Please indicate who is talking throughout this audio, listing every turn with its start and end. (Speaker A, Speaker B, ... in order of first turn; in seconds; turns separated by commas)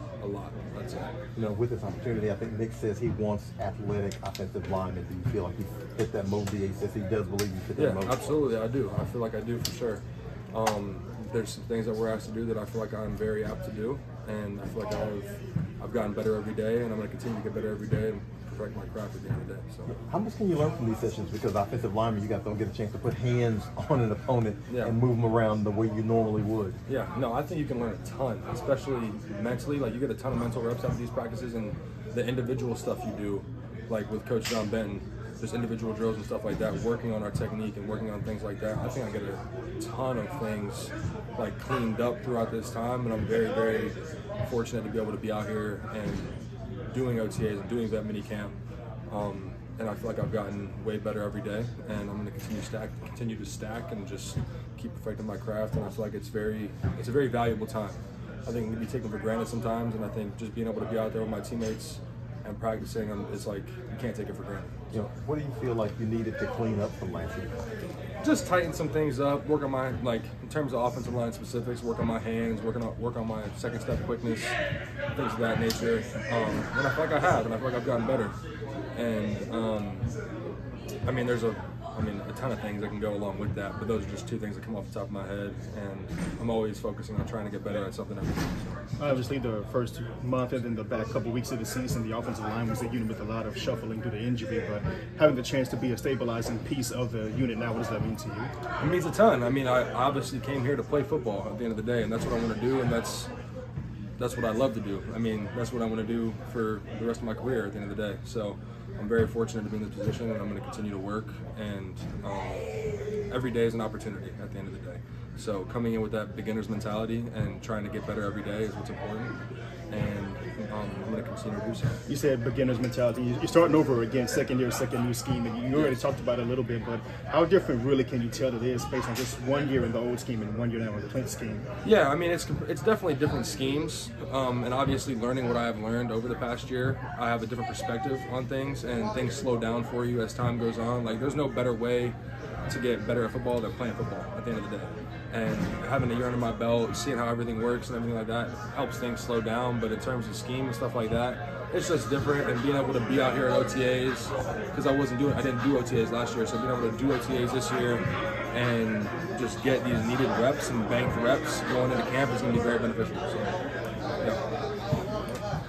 Speaker A: 0.2-1.1, Speaker B: 1.3-8.4, Speaker A: 7.8-10.0, Speaker A: 10.5-19.9, Speaker B: 19.9-26.8, Speaker A: 24.7-25.0, Speaker A: 26.9-46.3, Speaker A: 46.9-48.5, Speaker A: 49.1-64.7, Speaker B: 64.9-67.5, Speaker A: 68.2-74.5, Speaker A: 75.1-78.3, Speaker A: 78.9-80.1, Speaker A: 81.0-89.2, Speaker C: 89.0-98.5, Speaker A: 98.8-103.3, Speaker A: 104.2-112.7, Speaker A: 113.3-119.3, Speaker A: 119.9-122.0, Speaker C: 122.1-131.7, Speaker A: 125.7-126.0, Speaker A: 131.8-142.2, Speaker A: 142.7-163.6